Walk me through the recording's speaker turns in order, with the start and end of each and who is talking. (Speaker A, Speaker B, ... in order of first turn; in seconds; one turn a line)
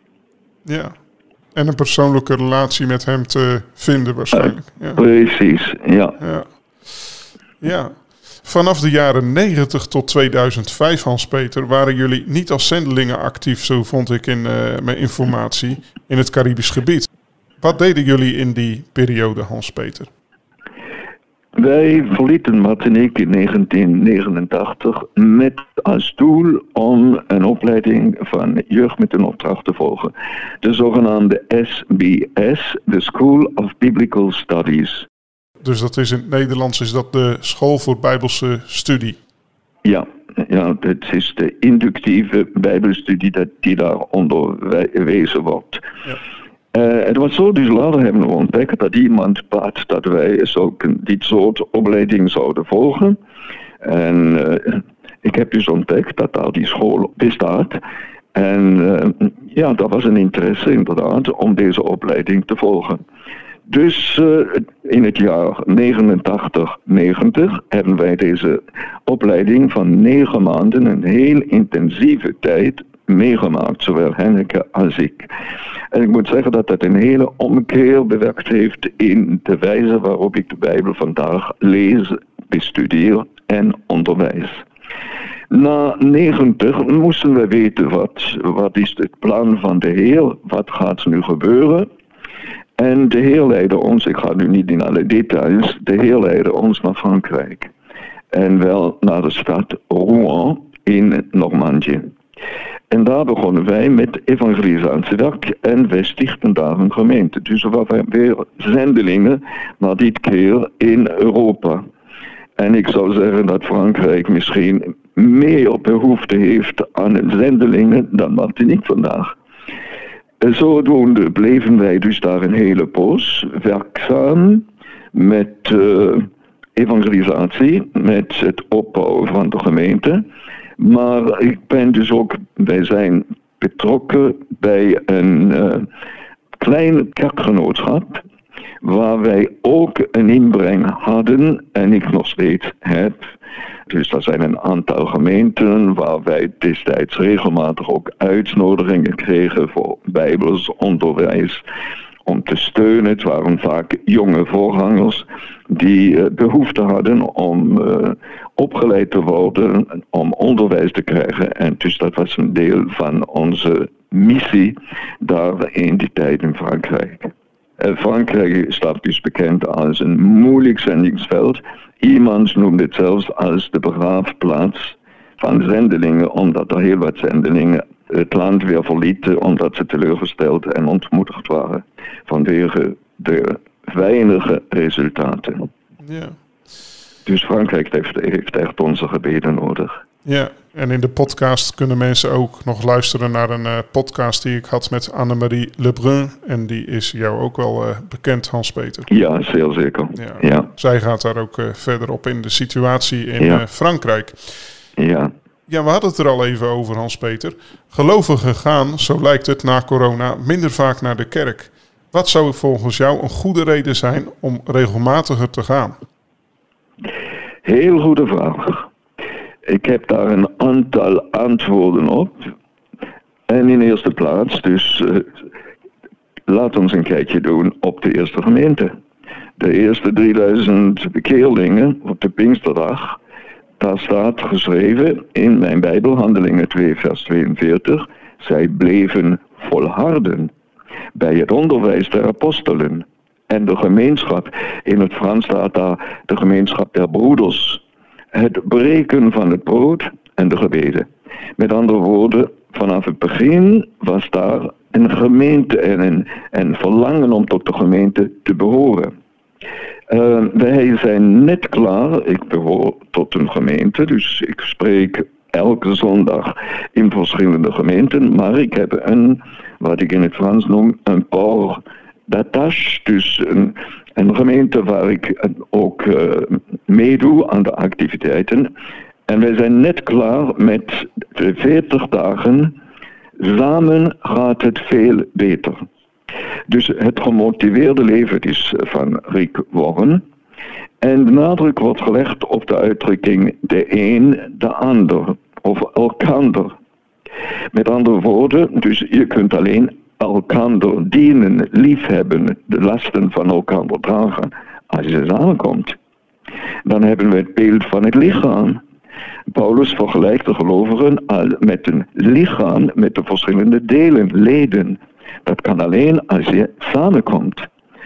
Speaker A: 0.7-0.9
Speaker A: 1.6-5.0
Speaker B: 4.3-6.2
Speaker A: 6.2-7.0
Speaker A: 7.6-17.1
Speaker A: 17.6-20.1
Speaker B: 21.6-35.1
Speaker A: 35.6-39.2
Speaker B: 39.9-45.8
Speaker B: 46.7-53.2
Speaker B: 53.8-57.8
Speaker B: 58.3-63.0
Speaker B: 63.7-75.3
Speaker B: 75.9-84.6
Speaker B: 85.5-91.9
Speaker B: 92.8-97.7
Speaker B: 98.3-102.1
Speaker B: 102.9-111.8
Speaker B: 112.6-119.4
Speaker B: 120.4-130.2
Speaker B: 130.8-135.9
Speaker B: 136.6-138.2
Speaker B: 138.8-143.2
Speaker B: 143.9-151.6
Speaker B: 152.2-185.7
Speaker A: 186.0-186.3
Speaker B: 187.3-190.0
Speaker A: 190.2-199.1
Speaker B: 199.1-200.7
Speaker A: 200.2-204.5
Speaker B: 205.0-205.3
Speaker A: 205.7-216.0
Speaker B: 217.7-218.9
Speaker B: 219.7-222.3
Speaker B: 223.5-225.3
Speaker B: 226.5-228.9
Speaker B: 229.6-233.2
Speaker B: 233.8-240.5
Speaker B: 241.2-247.8
Speaker B: 248.3-259.1
Speaker B: 260.1-278.7
Speaker B: 279.3-282.8
Speaker B: 283.4-285.8
Speaker B: 286.7-290.2
Speaker B: 291.0-296.8
Speaker B: 297.7-306.0
Speaker B: 306.9-308.8
Speaker B: 309.5-317.7